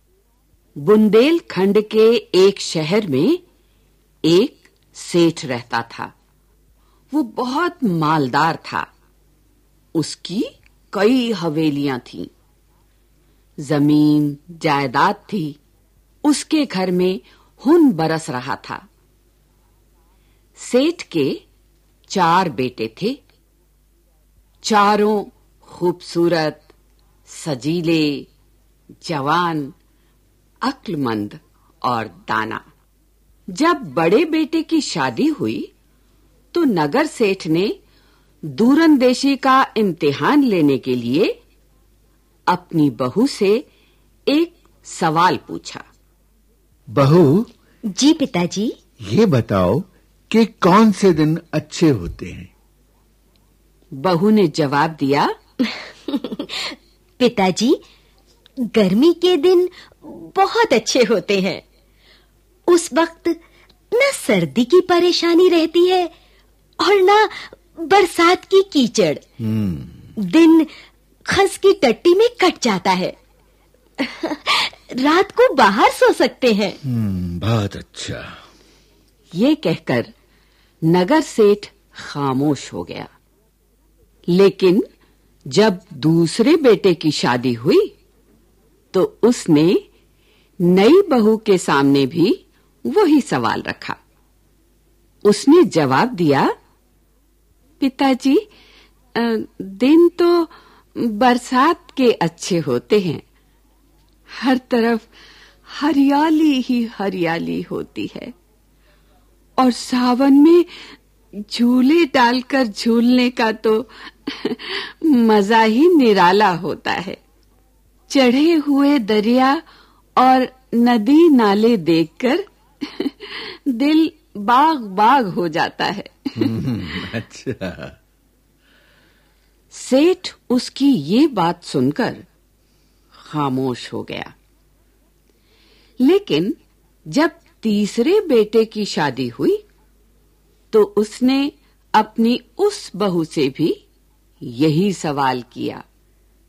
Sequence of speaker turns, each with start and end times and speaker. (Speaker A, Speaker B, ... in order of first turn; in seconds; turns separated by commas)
Speaker A: 0.8-3.4, Speaker A: 4.3-6.1, Speaker A: 7.1-8.9, Speaker A: 9.9-12.3, Speaker A: 13.6-15.6, Speaker A: 16.2-18.8, Speaker A: 20.6-21.4, Speaker A: 22.1-23.2, Speaker A: 24.6-26.7, Speaker A: 27.3-28.3, Speaker A: 29.1-29.7, Speaker A: 30.6-32.6, Speaker A: 33.5-35.7, Speaker A: 36.5-37.7, Speaker A: 38.5-41.3, Speaker A: 42.5-43.6, Speaker A: 44.3-45.8, Speaker B: 47.0-47.5, Speaker C: 47.9-48.8, Speaker B: 49.1-52.5, Speaker A: 54.0-55.3, Speaker C: 56.1-57.8, Speaker C: 58.7-61.6, Speaker C: 62.7-63.4, Speaker C: 63.9-66.1, Speaker C: 66.8-69.2, Speaker B: 69.4-70.1, Speaker C: 70.2-70.7, Speaker C: 71.3-73.2, Speaker C: 74.0-76.8, Speaker B: 76.8-78.3, Speaker A: 79.3-80.1, Speaker A: 80.9-83.1, Speaker A: 84.3-84.8, Speaker A: 85.5-87.9, Speaker A: 88.9-89.8, Speaker A: 90.7-92.4, Speaker A: 92.9-94.0, Speaker A: 95.2-96.5, Speaker A: 97.8-98.4, Speaker A: 99.2-103.2, Speaker A: 104.3-105.1, Speaker A: 105.7-108.3, Speaker A: 109.6-110.7, Speaker A: 111.4-117.2, Speaker A: 118.1-119.6, Speaker A: 120.2-126.6, Speaker B: 126.4-128.0, Speaker A: 129.7-132.3, Speaker A: 133.2-134.3, Speaker A: 136.0-136.5, Speaker A: 137.1-139.6, Speaker A: 140.7-143.8, Speaker A: 144.5-145.8